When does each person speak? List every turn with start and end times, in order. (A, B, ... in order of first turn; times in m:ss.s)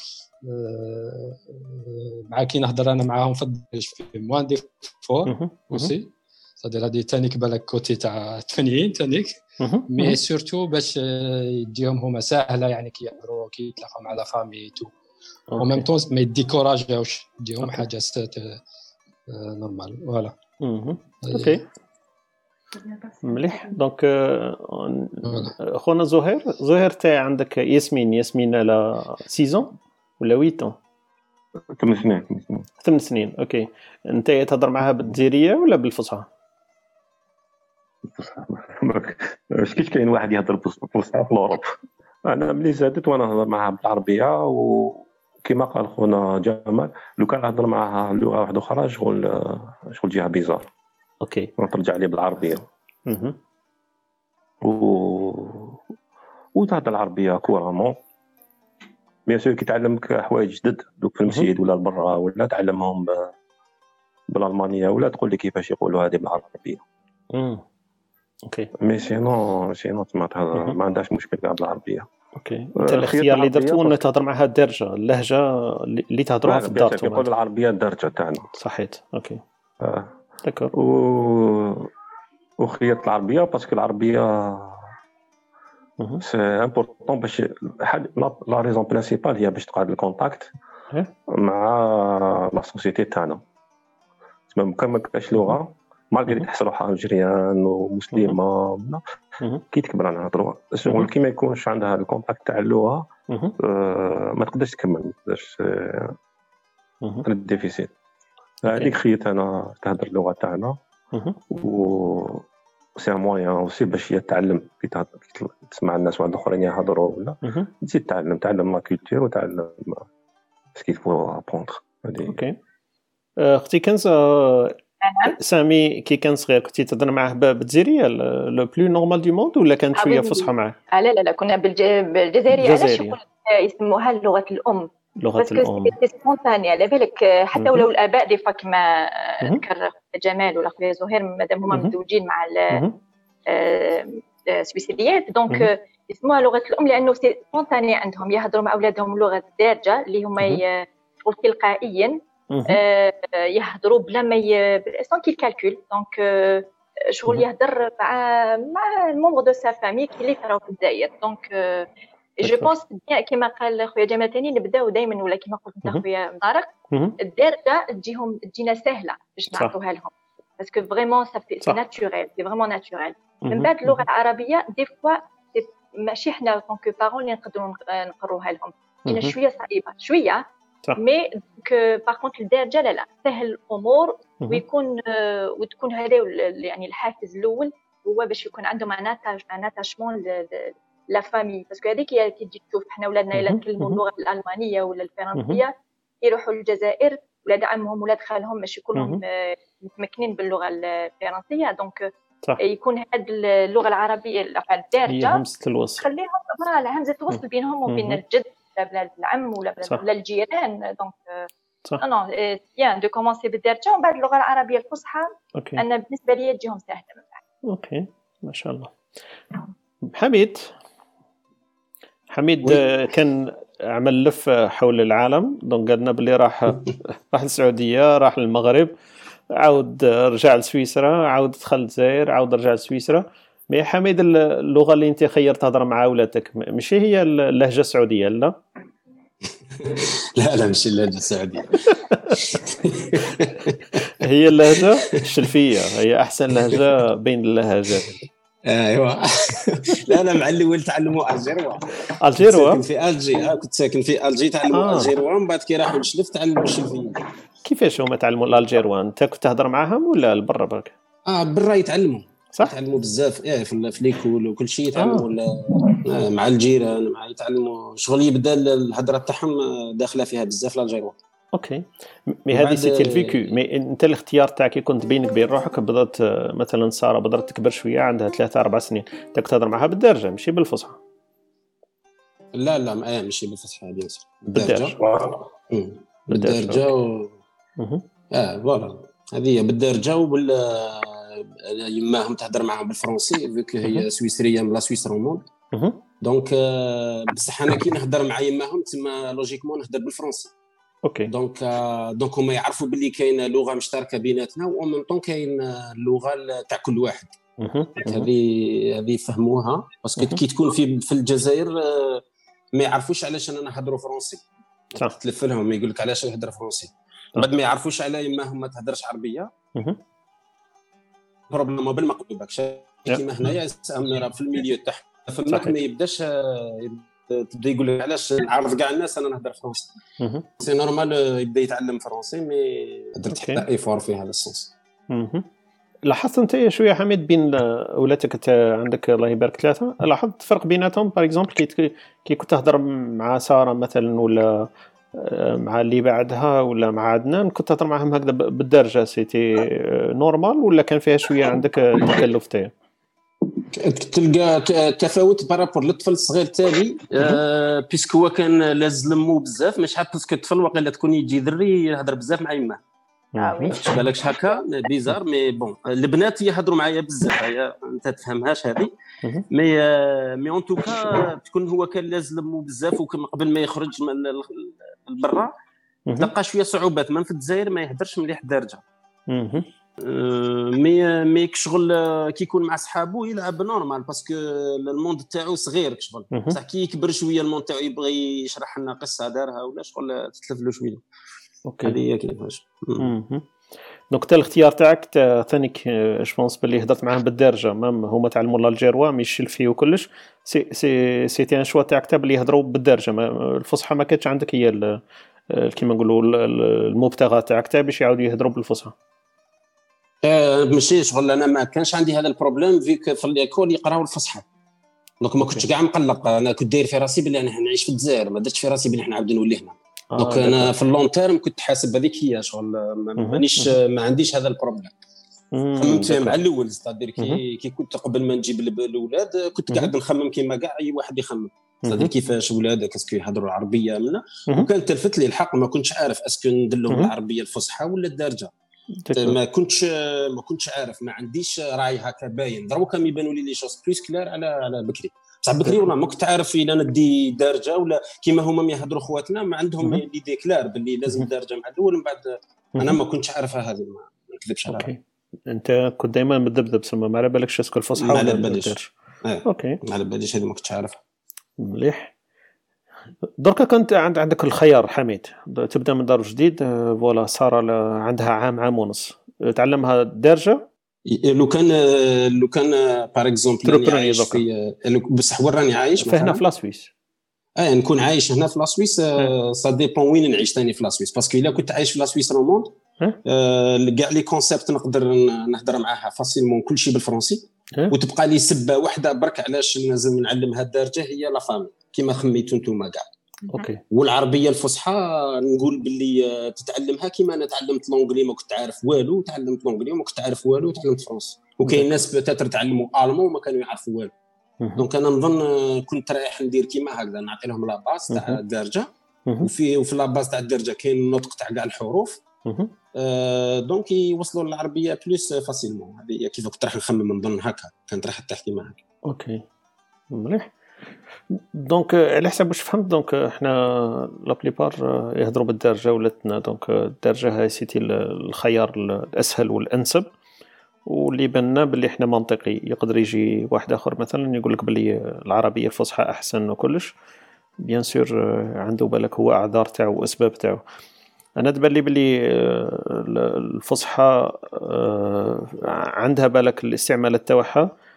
0:00.4-0:14.9 A
0:05.3-0:05.9 B
0:09.6-0:10.2 B
0:15.5-0:15.8 B
0:15.6-0:18.6 A
0:19.3-0:20.4 A
0:20.6-0:21.6 B
0:21.2-0:21.6 A
0:23.1-0:30.8 B
0:25.3-0:25.5 A
0:31.7-0:32.6 C
0:32.8-0:36.3 B
0:38.1-0:41.6 C
0:42.2-0:50.7 C
0:51.2-0:51.5 B
0:51.6-0:52.6 C
0:53.0-0:53.4 B
0:54.6-0:55.8 C
0:56.5-0:58.0 C
0:59.2-1:03.3 C
1:04.3-1:06.8 C
1:07.3-1:07.6 B
1:08.8-1:12.1 C
1:12.4-1:17.3 B
1:12.8-1:14.0 C
1:16.4-1:18.5 C
1:18.5-1:19.4 B
1:19.8-1:20.1 C
1:20.4-1:20.7 B
1:20.8-1:21.9 C
1:22.6-1:24.8 C
1:26.2-1:30.5 C
1:31.3-1:33.4 C
1:34.5-1:39.0 C
1:39.7-1:46.1 C
1:43.3-1:43.5 B
1:47.2-1:47.9 C
1:48.6-1:50.8 C
1:51.5-1:52.4 C
1:53.0-2:00.0 C
2:00.8-2:02.4 C
2:02.2-2:02.6 B
2:03.4-2:04.8 B
2:05.0-2:05.4 D
2:05.4-2:10.8 B
2:10.0-2:22.8 D
2:12.5-2:13.2 B
2:15.2-2:16.0 B
2:17.6-2:17.8 B
2:22.7-2:23.0 B
2:23.5-2:41.9 D
2:32.5-2:32.8 B
2:42.4-3:00.4 D
2:42.4-2:42.7 B
2:46.9-2:47.2 B
2:53.4-2:54.0 B
2:59.1-2:59.3 B
3:01.0-3:25.4 D
3:13.3-3:14.0 B
3:15.4-3:15.6 B
3:19.0-3:19.2 B
3:25.1-3:26.0 B
3:26.0-3:31.5 D
3:27.9-3:28.2 B
3:32.0-3:37.4 D
3:35.6-3:35.8 B
3:37.6-3:38.9 B
3:40.0-3:40.7 B
3:42.3-3:48.9 B
3:49.5-3:58.5 B
3:59.7-4:04.1 E
4:02.1-4:02.4 B
4:04.2-4:08.2 B
4:04.7-4:05.4 E
4:08.6-4:17.2 E
4:12.2-4:12.8 B
4:14.7-4:15.1 B
4:17.6-4:20.9 B
4:21.3-4:31.2 E
4:25.0-4:25.3 B
4:31.5-4:41.0 B
4:32.5-4:33.5 E
4:42.5-4:45.0 E
4:44.5-4:45.0 B
4:45.0-4:45.4 C
4:45.7-4:47.4 E
4:46.3-4:46.9 B
4:47.8-4:48.0 B
4:48.3-4:55.5 E
4:55.7-4:56.0 B
4:56.2-5:00.5 E
5:01.0-5:01.3 B
5:01.3-5:07.3 E
5:07.6-5:08.3 B
5:08.0-5:12.2 E
5:12.8-5:14.4 E
5:15.0-5:19.5 E
5:19.8-5:20.0 B
5:21.5-5:29.9 E
5:25.5-5:25.8 B
5:30.2-5:30.5 B
5:30.6-5:34.7 E
5:33.3-5:33.6 B
5:35.1-5:35.5 B
5:36.0-5:52.7 B
5:53.7-6:02.8 E
6:03.3-6:03.8 B
6:03.4-6:04.6 D
6:03.7-6:08.9 E
6:09.5-6:15.5 E
6:16.2-6:18.8 E
6:19.3-6:19.7 B
6:20.0-6:31.0 E
6:26.3-6:26.6 B
6:31.7-6:32.0 B
6:31.8-6:33.1 E
6:33.0-6:33.5 B
6:34.1-6:45.0 B
6:45.5-6:48.9 B
6:50.2-6:54.4 E
6:55.2-7:04.9 E
7:00.1-7:00.7 B
7:03.2-7:03.8 B
7:05.5-7:06.4 B
7:05.8-7:18.5 E
7:11.8-7:12.1 B
7:19.0-7:19.4 B
7:19.1-7:34.9 E
7:34.7-7:38.9 B
7:38.0-7:41.0 E
7:39.5-7:39.8 B
7:41.6-7:42.1 B
7:43.4-7:50.6 B
7:51.0-7:56.4 E
7:53.6-7:54.4 B
7:56.0-7:56.9 B
7:57.6-8:13.1 E
8:13.5-8:13.8 B
8:13.9-8:24.1 E
8:24.6-8:24.9 B
8:24.8-8:28.9 E
8:28.1-8:28.4 B
8:29.4-8:32.2 E
8:32.4-8:32.7 B
8:33.0-8:38.8 E
8:39.0-8:39.4 B
8:40.1-8:40.5 B
8:41.3-8:50.1 B
8:50.8-8:56.9 B
8:57.6-9:00.6 B
9:01.4-9:07.7 B